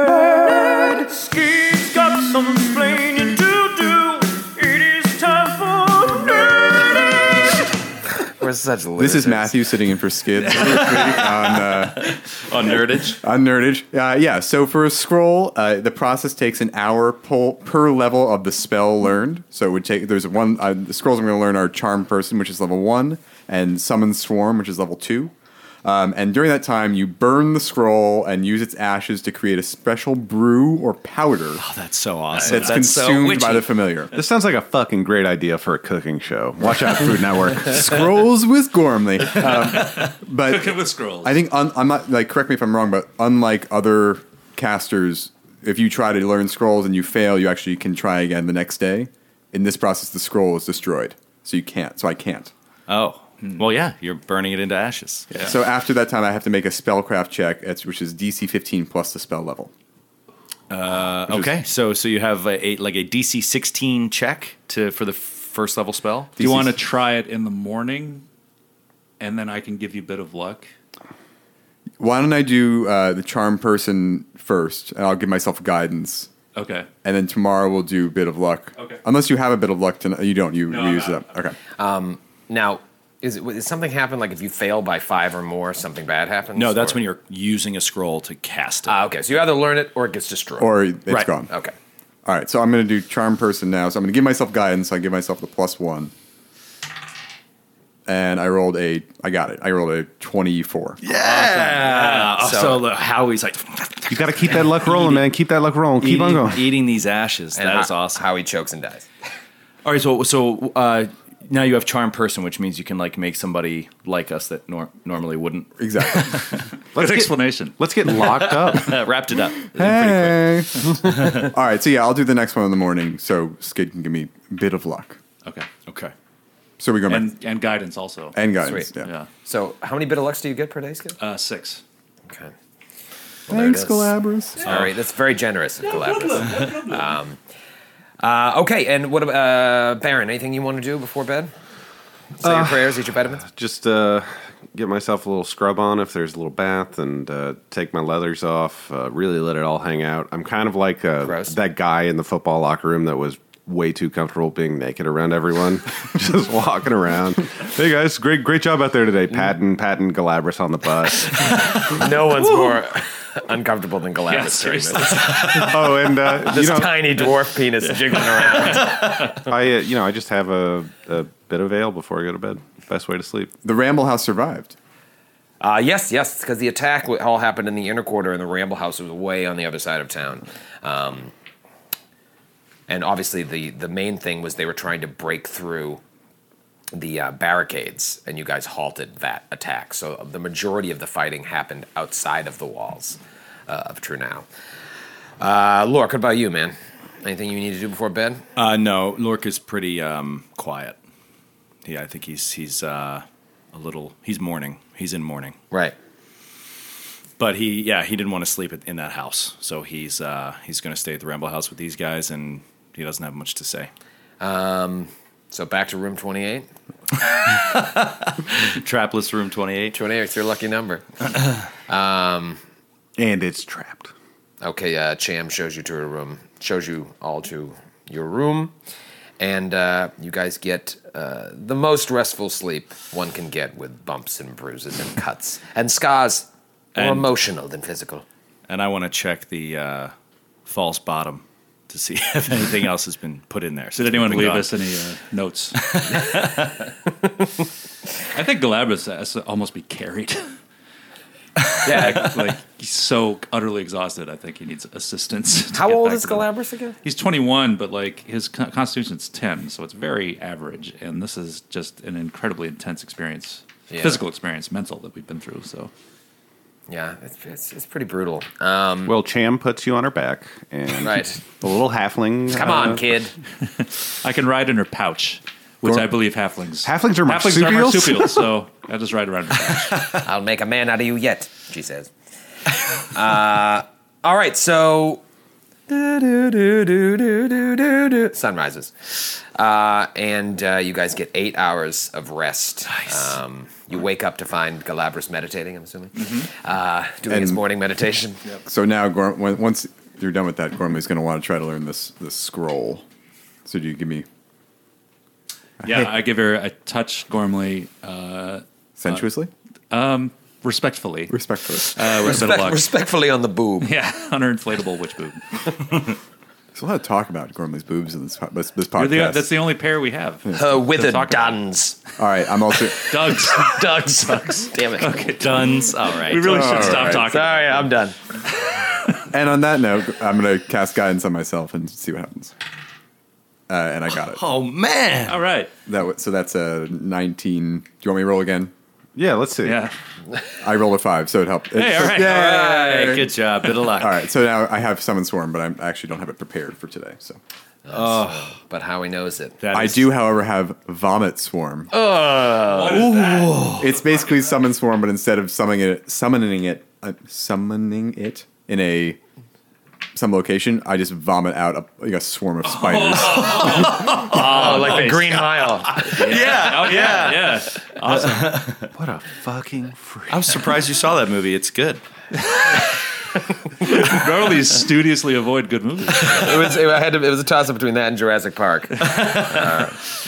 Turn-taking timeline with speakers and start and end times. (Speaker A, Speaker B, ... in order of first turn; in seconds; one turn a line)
Speaker A: 1.3-6.8
Speaker B: 8.2-9.5
Speaker C: 9.0-12.1
Speaker A: 10.5-11.2
Speaker A: 12.4-13.2
Speaker C: 13.2-25.3
Speaker C: 25.8-31.6
Speaker A: 31.6-33.7
Speaker C: 32.4-34.1
Speaker D: 34.1-38.3
Speaker C: 37.6-52.5
Speaker E: 39.7-41.4
Speaker A: 52.9-55.2
Speaker C: 55.4-59.7
Speaker A: 60.7-66.4
Speaker C: 61.3-61.5
Speaker E: 66.4-68.2
Speaker C: 66.4-66.7
Speaker E: 69.2-70.7
Speaker C: 72.0-76.3
Speaker E: 76.5-76.9
Speaker C: 77.0-81.6
Speaker E: 80.7-81.2
Speaker B: 81.8-87.0
Speaker A: 86.5-89.0
Speaker B: 88.8-90.9
Speaker C: 90.6-91.5
Speaker A: 91.1-91.3
Speaker B: 91.5-91.7
Speaker C: 92.2-96.1
Speaker C: 98.0-101.0
Speaker A: 101.0-105.3
Speaker B: 101.8-102.8
Speaker D: 104.1-106.7
Speaker A: 106.0-108.2
Speaker B: 107.5-109.1
Speaker A: 109.8-116.6
Speaker C: 115.8-116.4
Speaker D: 116.9-119.0
Speaker E: 117.0-117.7
Speaker A: 118.0-121.5
Speaker C: 119.7-125.2
Speaker A: 125.9-126.1
Speaker C: 126.8-127.3
Speaker E: 127.1-128.4
Speaker C: 128.3-129.1
Speaker B: 128.6-128.9
Speaker E: 129.0-129.3
Speaker B: 129.4-131.2
Speaker E: 131.2-131.8
Speaker B: 133.5-137.4
Speaker C: 133.5-134.7
Speaker E: 135.8-137.2
Speaker B: 138.2-141.5
Speaker B: 142.4-143.4
Speaker D: 142.4-161.8
Speaker B: 151.2-151.5
Speaker B: 161.9-165.9
Speaker E: 164.3-166.1
Speaker D: 165.5-167.0
Speaker B: 166.4-169.5
Speaker E: 167.8-168.8
Speaker D: 169.4-173.5
Speaker C: 173.6-174.8
Speaker B: 175.6-181.3
Speaker B: 182.9-186.0
Speaker B: 186.9-194.4
Speaker B: 195.4-198.4
Speaker A: 198.6-201.0
Speaker A: 201.8-205.6
Speaker B: 205.7-205.9
Speaker A: 207.4-213.9
Speaker B: 214.4-216.7
Speaker A: 217.5-220.0
Speaker B: 219.9-221.2
Speaker B: 221.9-222.6
Speaker D: 223.2-224.1
Speaker B: 224.6-228.7
Speaker B: 229.4-238.2
Speaker A: 236.9-237.3
Speaker A: 238.7-240.1
Speaker A: 240.7-244.8
Speaker E: 243.9-245.8
Speaker A: 245.8-246.7
Speaker E: 248.3-250.6
Speaker B: 251.8-252.3
Speaker E: 251.8-256.5
Speaker B: 255.7-256.9
Speaker E: 257.0-265.9
Speaker B: 263.9-264.2
Speaker B: 266.9-269.1
Speaker D: 269.1-273.0
Speaker B: 271.0-271.4
Speaker B: 272.5-273.3
Speaker E: 274.2-280.0
Speaker D: 276.8-278.5
Speaker B: 280.2-282.1
Speaker B: 283.0-285.2
Speaker B: 285.9-298.4
Speaker E: 296.1-296.5
Speaker C: 297.3-297.6
Speaker C: 298.6-303.0
Speaker C: 303.6-304.2
Speaker E: 305.8-309.2
Speaker C: 305.8-306.1
Speaker C: 309.0-309.5
Speaker E: 309.9-312.9
Speaker C: 311.3-312.2
Speaker B: 312.2-313.9
Speaker E: 313.8-315.6
Speaker C: 316.7-319.5
Speaker E: 318.9-321.6
Speaker B: 320.5-322.0
Speaker C: 322.2-323.4
Speaker E: 323.1-323.8
Speaker B: 323.1-325.3
Speaker E: 325.0-327.9
Speaker A: 325.4-327.0
Speaker C: 326.4-327.4
Speaker B: 327.0-328.1
Speaker C: 329.3-332.5
Speaker C: 333.7-334.4
Speaker A: 334.2-335.4
Speaker E: 335.3-335.7
Speaker C: 335.9-338.7
Speaker D: 339.1-339.9
Speaker E: 339.6-339.9
Speaker C: 340.6-347.4
Speaker E: 341.8-342.6
Speaker A: 341.9-344.2
Speaker B: 347.9-349.6
Speaker A: 347.9-348.5
Speaker A: 349.6-350.1
Speaker C: 349.7-351.9
Speaker B: 351.9-353.3
Speaker E: 352.7-354.3
Speaker A: 352.9-353.9
Speaker C: 353.7-359.2
Speaker C: 360.1-363.7
Speaker E: 362.7-368.7
Speaker A: 363.3-365.2
Speaker B: 363.8-366.2
Speaker A: 366.0-368.9
Speaker D: 368.9-370.7
Speaker A: 370.3-372.0
Speaker E: 373.8-376.5
Speaker B: 376.2-380.1
Speaker A: 379.0-379.9